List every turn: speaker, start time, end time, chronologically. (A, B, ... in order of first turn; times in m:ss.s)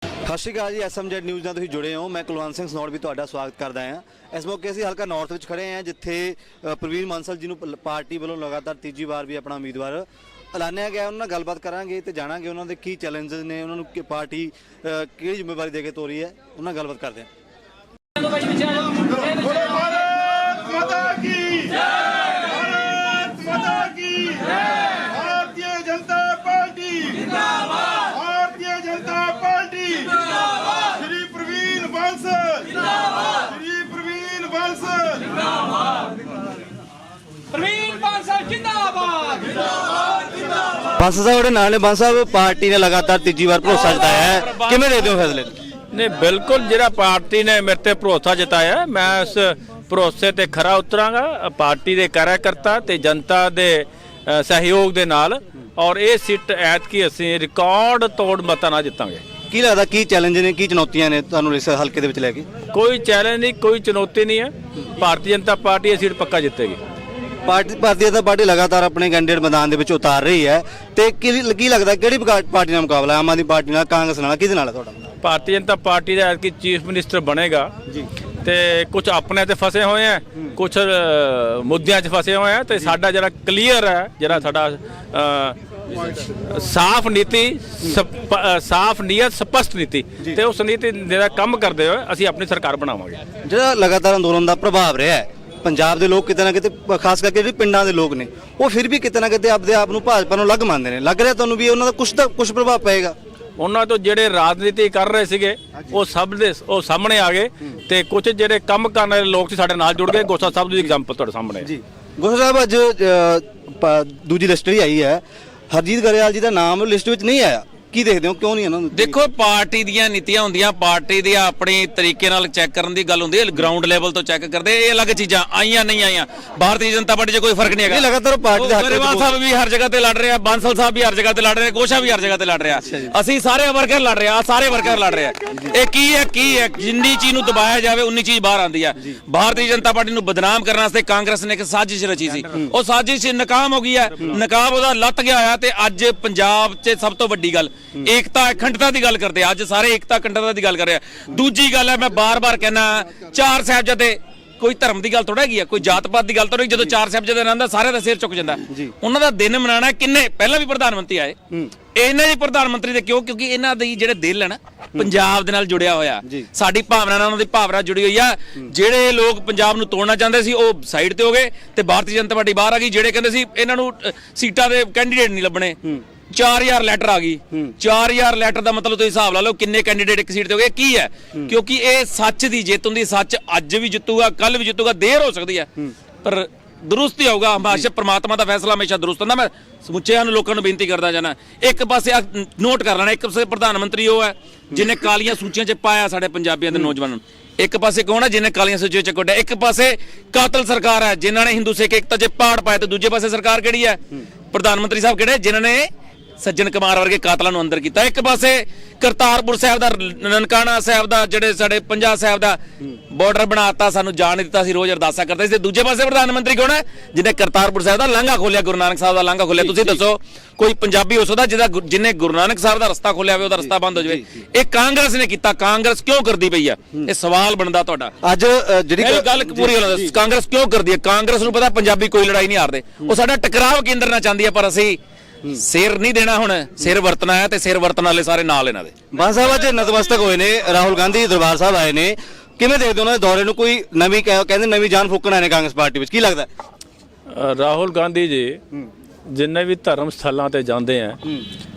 0:00.2-0:17.3 A
0:19.7-0:21.8 A
0:22.5-0:24.5 A
0:25.1-0:27.2 A
0:28.1-0:30.1 A
0:31.0-0:32.6 A
0:33.5-0:35.1 A
0:37.6-0:39.4 B
0:41.0-0:45.5 A
0:43.6-0:45.1 B
0:45.9-0:59.2 C
0:59.5-1:02.4 A
1:02.7-1:06.8 C
1:07.4-1:15.0 A
1:15.2-1:17.7 C
1:18.4-1:33.2 C
1:33.4-1:43.1 A
1:43.6-1:51.7 C
1:51.6-1:59.2 A
1:58.9-2:41.4 B
2:07.9-2:09.3 A
2:12.8-2:13.1 A
2:38.7-2:38.9 A
2:41.9-3:05.7 B
3:06.2-3:25.9 B
3:26.4-3:32.6 B
3:33.1-3:48.1 B
3:39.6-3:40.0 A
3:43.6-3:44.2 A
3:48.2-3:50.2 A
3:49.0-3:55.0 B
3:55.5-3:58.9 B
3:59.1-4:06.5 A
4:07.3-4:08.6 C
4:09.3-4:11.2 C